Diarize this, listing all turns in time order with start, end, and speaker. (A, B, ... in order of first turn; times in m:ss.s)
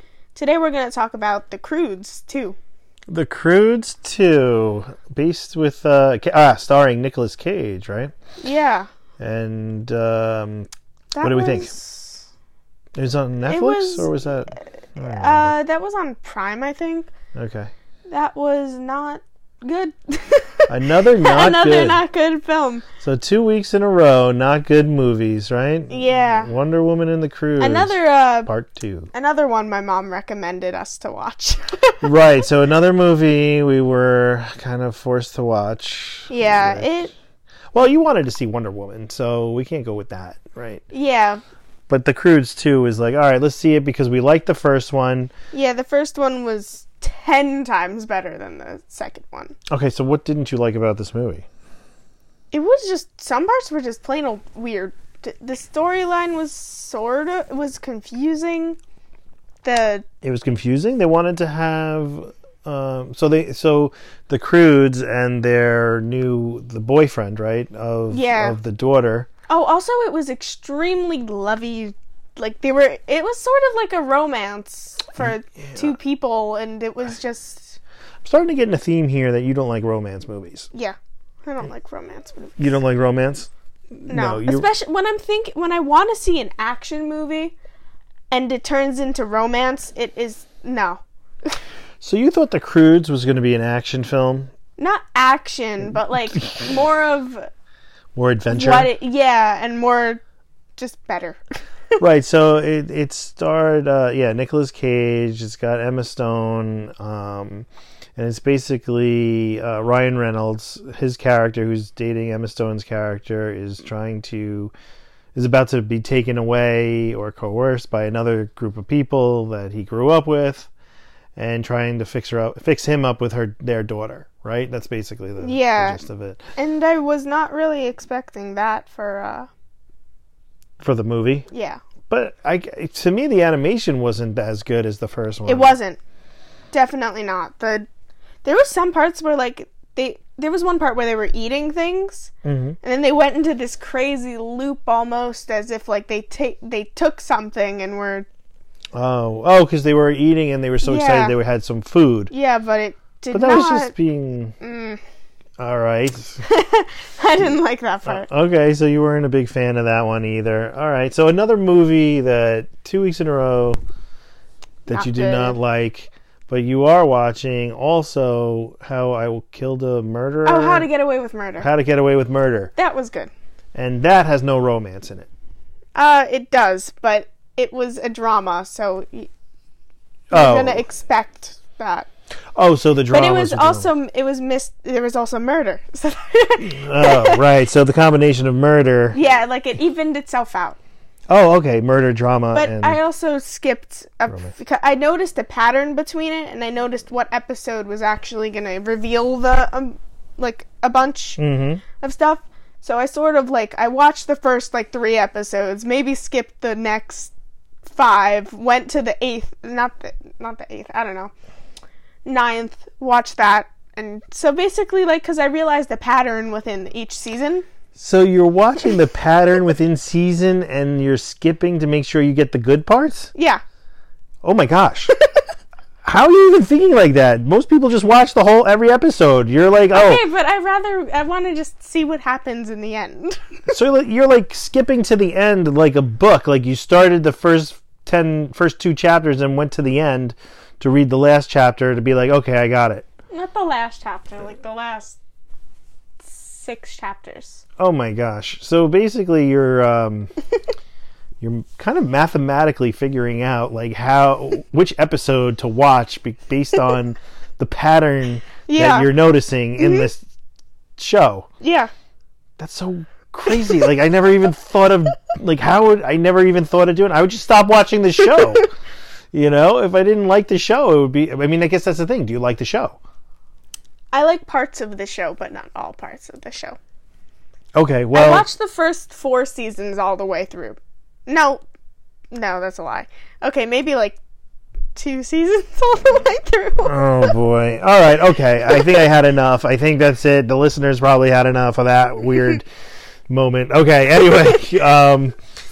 0:00.3-0:02.6 A
0:03.1-0:08.1 B
0:08.4-0:08.9 A
0:09.2-0:10.7 B
0:11.1-0:12.3 A
0:11.2-0:11.7 B
0:13.0-0:15.5 B
0:13.4-0:14.1 A
0:15.0-0:17.1 A
0:17.3-0:17.7 B
0:18.1-0:22.8 A
0:20.7-0:22.0 B
0:23.0-0:29.1 B
0:25.9-0:26.5 A
0:27.6-0:28.5 A
0:29.1-0:32.0 A
0:32.0-0:37.1 B
0:36.3-0:37.1 A
0:37.7-0:40.8 B
0:40.9-0:41.4 A
0:41.9-0:45.3 B
0:45.5-0:49.6 A
0:49.7-0:51.4 B
0:52.5-0:58.8 A
0:59.6-1:00.0 A
1:00.2-1:09.3 B
1:08.1-1:08.6 A
1:09.5-1:17.8 A
1:15.2-1:16.0 B
1:18.2-1:20.7 B
1:20.7-1:22.7 A
1:22.6-1:24.7 B
1:24.1-1:27.5 A
1:28.3-1:31.5 A
1:32.0-1:34.5 B
1:34.8-1:37.5 A
1:38.1-1:38.9 B
1:38.5-1:40.2 A
1:40.8-1:41.4 A
1:42.0-1:54.7 B
1:55.3-2:00.7 B
2:01.4-2:06.4 B
2:05.4-2:06.0 A
2:06.6-2:09.5 A
2:10.8-2:11.5 B
2:11.5-2:11.8 A
2:12.1-2:15.8 B
2:15.4-2:16.0 A
2:16.7-2:17.9 A
2:18.4-2:28.3 A
2:22.4-2:22.8 B
2:28.9-2:32.3 B
2:30.8-2:31.3 A
2:32.3-2:33.9 A
2:33.3-2:34.5 B
2:34.6-2:35.0 A
2:35.6-2:36.4 B
2:36.4-2:38.3 A
2:38.0-2:43.8 B
2:44.8-2:50.9 B
2:44.9-2:45.6 A
2:50.4-2:51.7 A
2:51.6-2:52.7 B
2:52.8-2:53.3 A
2:53.7-2:55.3 B
2:55.9-2:59.3 A
3:00.3-3:00.8 B
3:00.3-3:02.1 A
3:02.5-3:03.9 B
3:03.1-3:07.4 A
3:06.6-3:09.2 B
3:09.1-3:10.8 A
3:11.3-3:13.0 B
3:12.5-3:21.4 A
3:14.3-3:14.5 B
3:21.4-3:21.8 B
3:22.0-3:27.3 A
3:27.8-3:31.3 A
3:32.2-3:37.6 A
3:37.9-3:43.3 B
3:43.3-3:43.6 A
3:44.4-3:45.1 B
3:46.0-3:50.2 B
3:49.9-3:53.4 A
3:53.7-4:03.0 B
4:03.3-4:05.2 A
4:06.2-4:07.6 A
4:07.8-4:10.3 B
4:11.4-4:20.2 B
4:18.7-4:19.1 A
4:19.8-4:20.1 A
4:21.0-4:21.5 B
4:21.6-4:21.9 A
4:22.6-4:28.7 B
4:29.3-4:33.0 B
4:34.1-4:36.8 A
4:37.7-4:38.4 B
4:38.1-4:41.6 A
4:42.3-4:44.2 A
4:44.9-4:47.3 A
4:46.8-4:52.6 B
4:53.3-4:55.4 B